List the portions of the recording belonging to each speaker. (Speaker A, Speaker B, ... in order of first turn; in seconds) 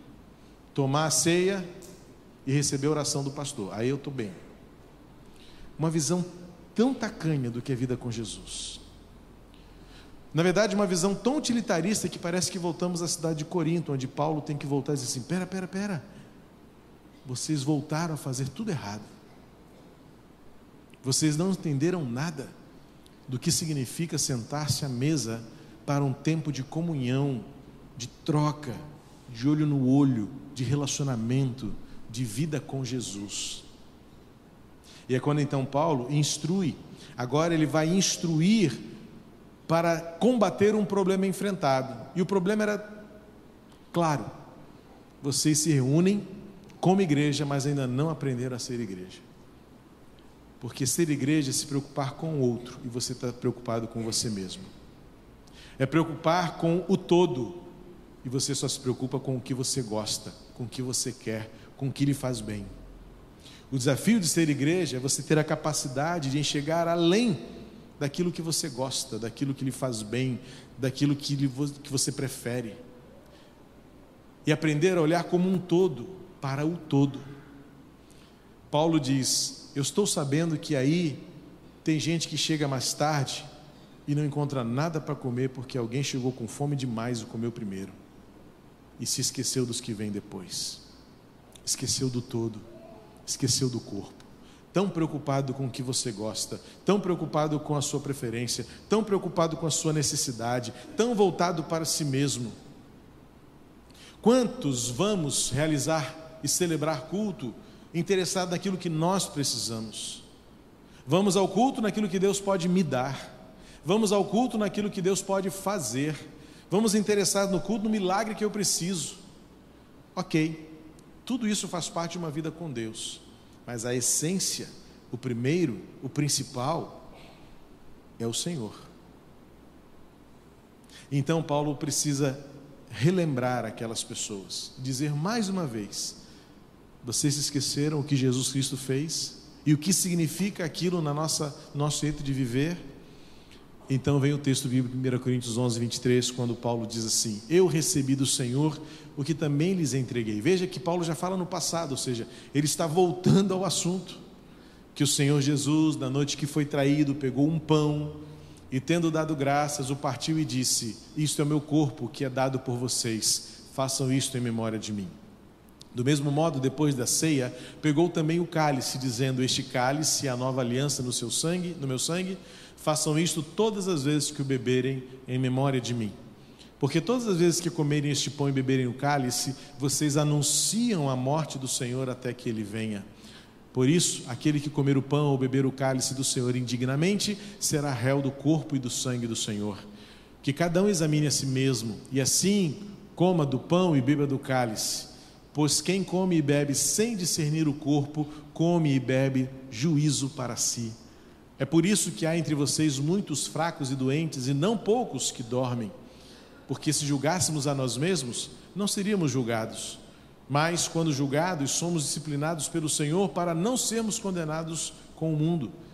Speaker A: 0.7-1.7, 2.4-4.4, 5.8-8.8, 10.3-16.0, 17.2-19.1, 21.0-22.5, 23.3-33.6, 35.1-38.8, 39.7-43.0, 43.9-44.3, 45.2-46.3, 46.8-49.2, 50.6-54.7, 55.8-57.6, 58.2-62.7, 63.7-67.4, 68.0-72.8, 74.5-77.2, 78.7-81.2, 81.8-83.5, 84.1-87.9, 89.0-90.8, 91.6-92.6, 93.2-102.5, 104.2-110.2, 111.0-113.3, 113.8-119.2, 120.1-120.7, 121.2-127.1, 128.2-128.9, 131.1-136.2, 137.0-142.8, 143.9-154.2, 154.9-158.2, 158.7-165.2, 165.9-176.1, 176.8-183.1, 183.7-189.8, 190.4-200.9, 201.6-205.9, 206.7-215.7